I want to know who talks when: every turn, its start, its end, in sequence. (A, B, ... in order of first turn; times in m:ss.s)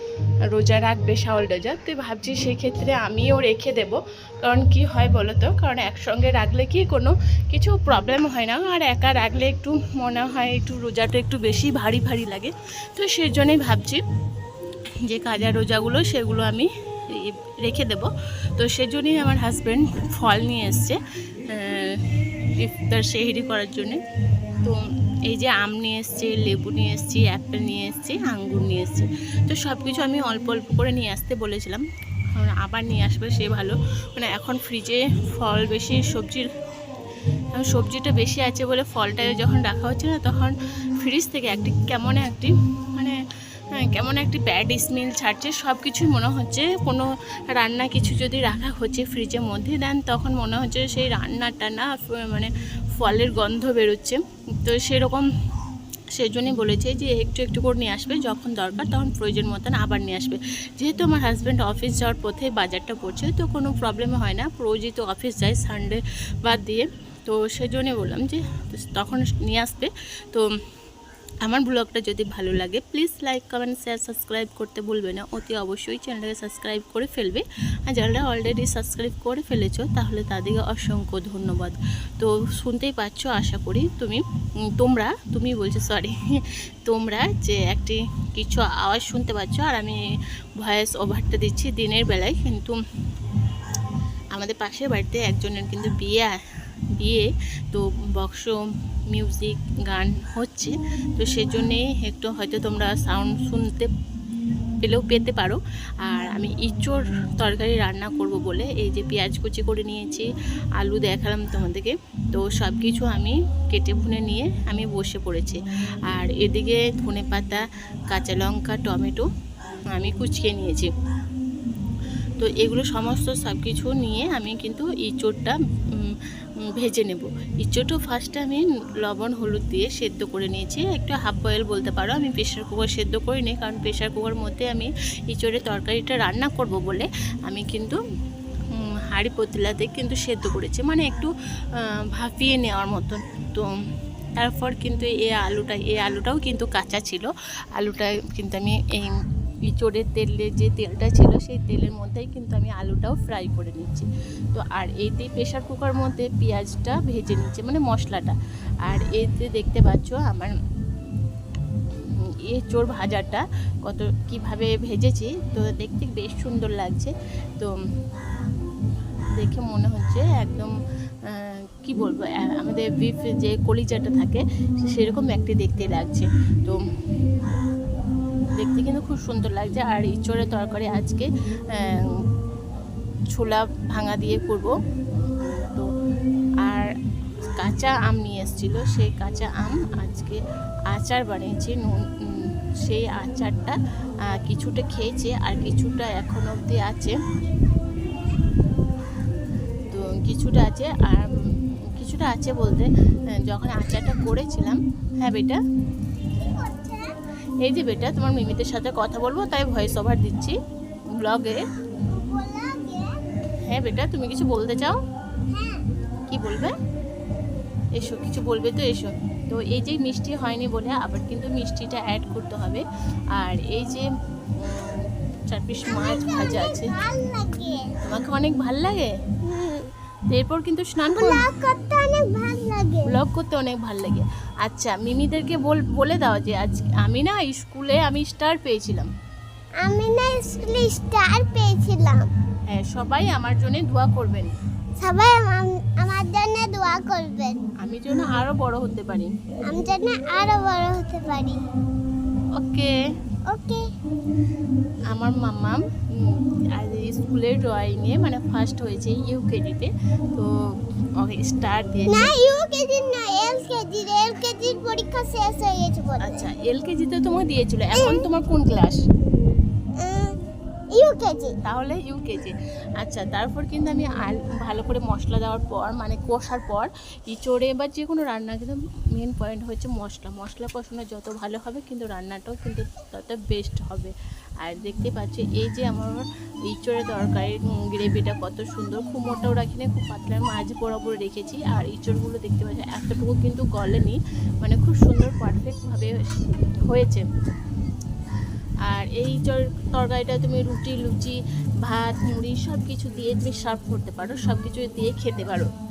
0:00.5-0:14.0 A
0:15.1-0:21.0 A
0:21.5-0:22.0 A
0:22.6-0:24.0 A
0:24.6-0:31.8 A
0:32.3-0:36.5 A
0:37.6-0:43.2 A
0:43.8-0:55.2 A
0:56.1-1:10.4 A
1:11.4-1:24.2 A
1:24.8-1:26.1 A
1:26.8-1:30.0 A
1:30.6-1:32.8 A
1:34.3-1:36.3 A
1:37.0-1:38.6 A
1:39.1-1:43.9 A
1:44.8-1:50.3 A
1:50.8-1:59.2 A
1:59.9-2:00.9 A
2:02.4-2:06.1 A
2:06.8-2:18.0 A
2:18.7-2:21.3 A
2:22.1-2:23.7 A
2:24.4-2:40.5 A
2:42.5-2:47.7 A
2:49.4-2:50.7 A
2:51.3-2:56.8 A
2:58.6-3:02.2 A
3:03.3-3:04.7 A
3:05.4-3:05.9 A
3:06.6-3:06.9 A
3:07.6-3:10.4 A
3:10.9-3:13.8 A
3:14.3-3:17.2 A
3:19.9-3:21.3 A
3:22.0-3:25.6 A
3:26.4-3:27.1 B
3:27.6-3:30.6 A
3:31.2-3:31.6 A
3:32.1-3:33.2 B
3:33.7-3:35.0 A
3:35.5-3:35.8 B
3:36.3-3:36.7 A
3:38.0-3:42.8 A
3:43.4-3:44.0 A
3:44.6-3:46.9 A
3:45.9-3:48.0 B
3:48.0-3:49.1 A
3:49.4-3:49.9 B
3:50.3-3:51.4 A
3:51.1-3:53.1 B
3:53.1-3:59.1 A
3:59.8-4:02.3 B
4:02.7-4:04.5 A
4:05.0-4:07.6 B
4:07.8-4:09.3 A
4:09.7-4:11.6 B
4:12.6-4:12.9 A
4:13.5-4:13.8 B
4:15.1-4:20.5 A
4:21.2-4:22.2 A
4:22.1-4:26.4 B
4:26.2-4:29.0 A
4:28.0-4:28.2 B
4:30.0-4:30.4 B
4:30.9-4:31.6 B
4:31.6-4:56.2 A
4:56.9-4:57.2 A
4:58.9-5:05.7 A